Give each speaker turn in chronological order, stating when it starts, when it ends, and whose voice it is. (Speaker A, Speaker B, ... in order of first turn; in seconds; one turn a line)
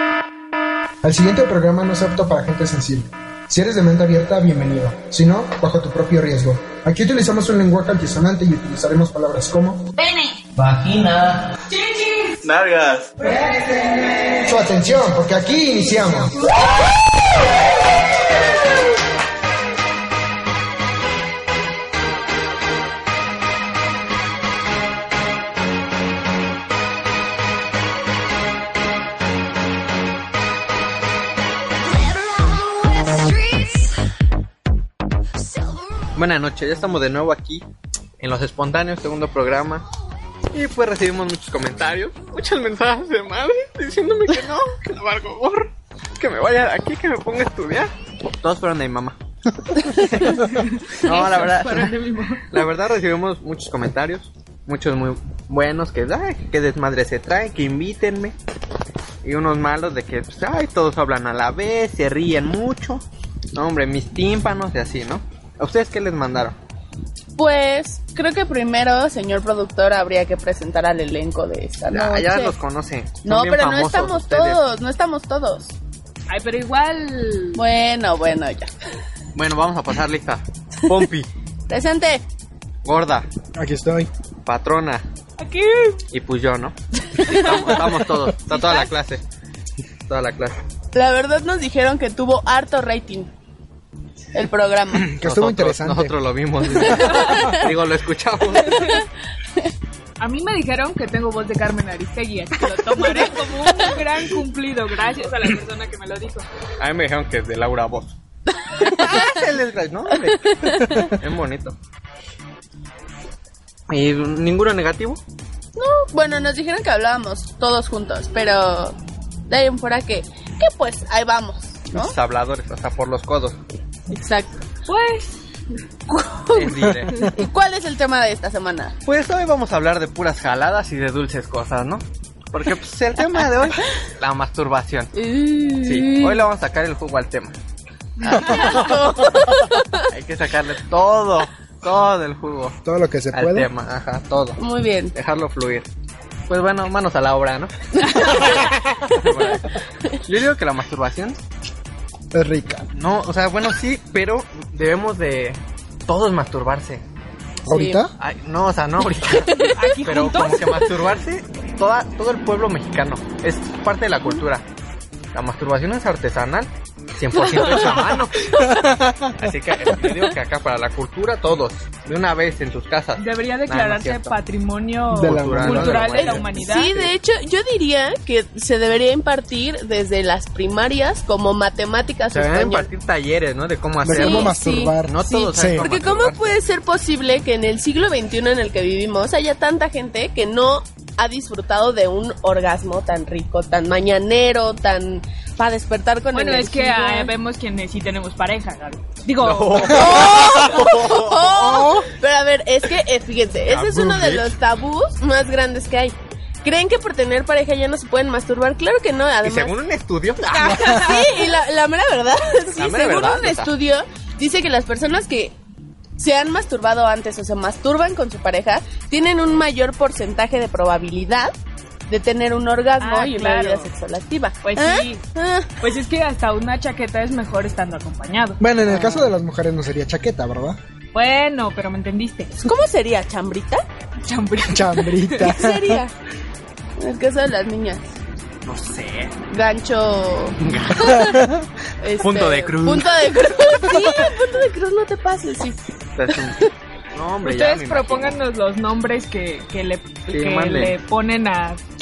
Speaker A: 1.0-9.9
Speaker B: 10.0-10.4
Speaker C: 10.6-10.9
Speaker C: 12.4-13.1
Speaker A: 14.4-16.4
Speaker B: 32.4-33.8
Speaker C: 36.1-37.6
Speaker C: 38.2-39.9
Speaker C: 40.5-49.2
Speaker C: 49.7-52.0
Speaker D: 50.4-52.4
Speaker C: 52.5-58.3
Speaker C: 59.2-63.0
Speaker C: 63.5-66.5
Speaker E: 67.4-72.5
Speaker C: 71.9-74.6
Speaker E: 73.2-75.8
Speaker D: 76.3-77.6
Speaker E: 77.5-78.7
Speaker C: 79.3-81.3
Speaker E: 81.7-82.2
Speaker C: 82.8-83.3
Speaker A: 83.5-84.1
Speaker C: 84.4-85.0
Speaker D: 85.4-86.0
Speaker C: 86.1-89.2
Speaker D: 87.2-88.9
Speaker C: 90.1-90.6
Speaker E: 90.9-93.3
Speaker E: 94.3-95.1
Speaker C: 95.0-98.9
Speaker A: 95.1-96.2
Speaker E: 97.4-97.6
Speaker D: 100.2-106.5
Speaker C: 106.8-108.2
Speaker E: 108.7-109.4
Speaker C: 108.8-111.8
Speaker E: 110.6-111.0
Speaker C: 113.9-115.2
Speaker E: 115.7-119.0
Speaker E: 119.5-122.1
Speaker C: 121.9-123.6
Speaker E: 124.1-124.7
Speaker D: 124.9-125.4
Speaker E: 126.1-128.9
Speaker C: 126.5-127.3
Speaker C: 129.0-135.1
Speaker E: 135.1-136.5
Speaker C: 135.8-137.6
Speaker E: 138.2-140.1
Speaker C: 140.1-142.8
Speaker A: 142.8-143.7
Speaker C: 143.3-144.6
Speaker E: 144.6-145.1
Speaker C: 145.1-145.9
Speaker C: 146.5-149.7
Speaker E: 148.0-148.5
Speaker C: 150.2-151.4
Speaker A: 152.3-152.9
Speaker C: 152.9-157.0
Speaker E: 157.6-158.0
Speaker A: 157.7-158.1
Speaker C: 158.2-164.6
Speaker D: 159.7-160.9
Speaker C: 165.3-168.5
Speaker D: 167.5-168.1
Speaker C: 169.3-174.3
Speaker D: 173.2-177.0
Speaker C: 175.1-176.4
Speaker A: 175.1-176.6
Speaker E: 176.6-182.9
Speaker C: 182.3-186.5
Speaker A: 184.0-185.9
Speaker E: 184.1-197.3
Speaker D: 196.3-200.2
Speaker C: 199.4-201.9
Speaker E: 199.9-209.7
Speaker A: 200.2-200.9
Speaker A: 201.6-202.1
Speaker C: 203.7-204.5
Speaker C: 209.4-211.3
Speaker E: 210.4-215.5
Speaker C: 212.8-213.7
Speaker E: 216.2-221.5
Speaker E: 222.1-225.8
Speaker D: 223.0-223.9
Speaker D: 224.6-225.2
Speaker D: 225.8-228.6
Speaker A: 228.6-230.8
Speaker E: 228.8-229.3
Speaker D: 231.1-232.5
Speaker E: 232.6-233.8
Speaker D: 234.2-235.5
Speaker A: 234.7-236.0
Speaker E: 235.4-236.1
Speaker E: 237.0-238.1
Speaker C: 238.6-239.3
Speaker E: 239.5-241.3
Speaker C: 240.6-241.6
Speaker E: 242.0-246.7
Speaker C: 242.2-243.1
Speaker C: 246.2-246.6
Speaker C: 247.1-248.4
Speaker D: 247.4-251.8
Speaker C: 250.3-250.9